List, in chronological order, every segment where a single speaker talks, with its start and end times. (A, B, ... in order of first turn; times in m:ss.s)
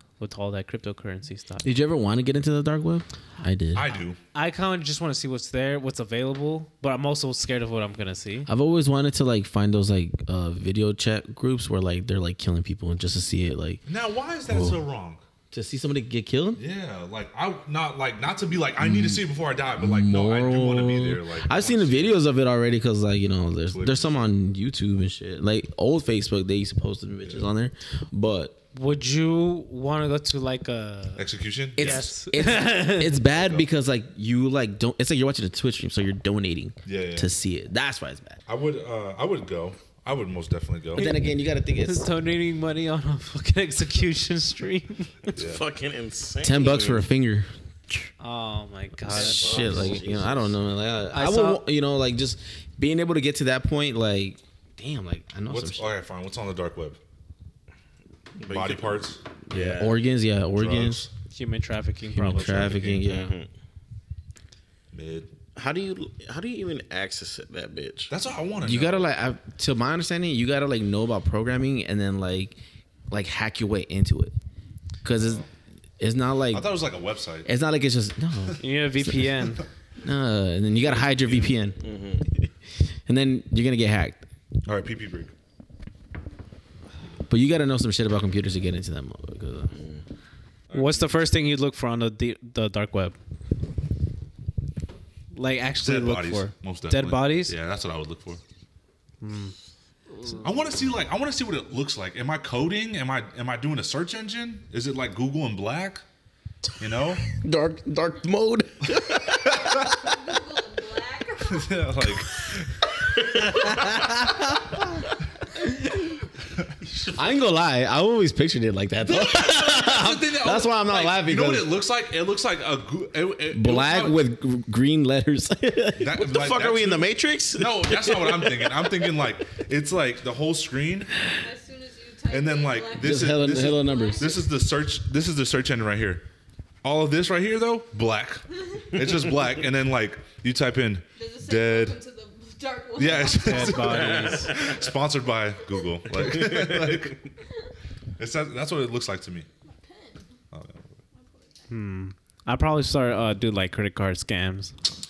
0:00.2-0:01.7 A
0:01.6-0:03.9 B
0:03.7-0:04.2 C
0:04.3-0:08.5 A
0:08.5-0:13.8 B
0:13.9-0:15.2 C
0:14.5-0:14.8 B
0:15.5-0:16.6 B
0:16.6-0:22.2 C
0:18.8-0:19.2 B
0:19.8-0:28.6 B
0:23.7-0:24.3 C
0:28.7-0:31.3 A
0:31.2-0:32.1 C
0:31.8-0:33.2 A
0:31.8-0:38.4 B
0:33.3-0:33.7 C
0:36.8-0:37.3 C
0:38.5-0:41.1 C
0:41.0-0:42.1 B
0:41.0-0:41.2 A
0:41.8-0:45.3 A
0:45.3-0:47.0 D
0:45.4-0:45.6 C
0:46.4-0:47.5 B
0:48.2-0:49.7 A
0:49.1-0:50.5 D
0:49.1-0:55.9 B
0:49.4-0:50.0 C
0:51.1-0:51.6 A
0:55.5-0:57.0 C
0:58.4-1:00.0 D
0:58.4-0:59.2 C
0:59.5-1:01.0 B
1:00.6-1:01.1 C
1:01.3-1:02.8 A
1:02.1-1:03.3 B
1:02.2-1:03.1 C
1:03.0-1:03.5 D
1:04.9-1:05.3 C
1:05.6-1:08.1 D
1:08.1-1:09.1 C
1:08.6-1:12.6 B
1:13.1-1:14.3 B
1:15.0-1:15.4 B
1:15.1-1:15.5 C
1:16.0-1:16.7 B
1:16.5-1:17.5 C
1:17.4-1:19.3 B
1:18.6-1:19.6 A
1:20.0-1:21.8 B
1:21.0-1:21.5 C
1:21.8-1:22.5 D
1:23.1-1:24.2 B
1:24.6-1:25.3 C
1:27.3-1:29.7 B
1:29.7-1:30.0 D
1:30.7-1:31.2 C
1:30.7-1:33.2 A
1:35.3-1:37.5 A
1:35.8-1:38.4 C
1:39.2-1:39.5 A
1:40.4-1:46.0 C
1:46.8-1:47.2 C
1:47.4-1:49.4 B
1:49.1-1:52.0 E
1:49.4-1:50.0 C
1:51.4-1:52.9 C
1:53.3-1:54.1 E
1:53.6-1:54.8 B
1:56.8-1:57.2 D
1:57.1-2:01.7 B
1:59.1-2:04.2 C
2:03.5-2:06.1 B
2:06.0-2:11.2 C
2:06.1-2:08.9 D
2:11.4-2:14.5 E
2:12.3-2:16.2 C
2:13.0-2:14.3 B
2:16.8-2:22.0 C
2:21.2-2:24.0 E
2:23.0-2:27.3 C
2:23.4-2:24.6 A
2:23.9-2:24.8 D
2:26.1-2:27.2 D
2:28.2-2:29.5 C
2:29.6-2:30.3 E
2:30.5-2:31.0 C
2:31.1-2:31.8 E
2:31.7-2:34.7 A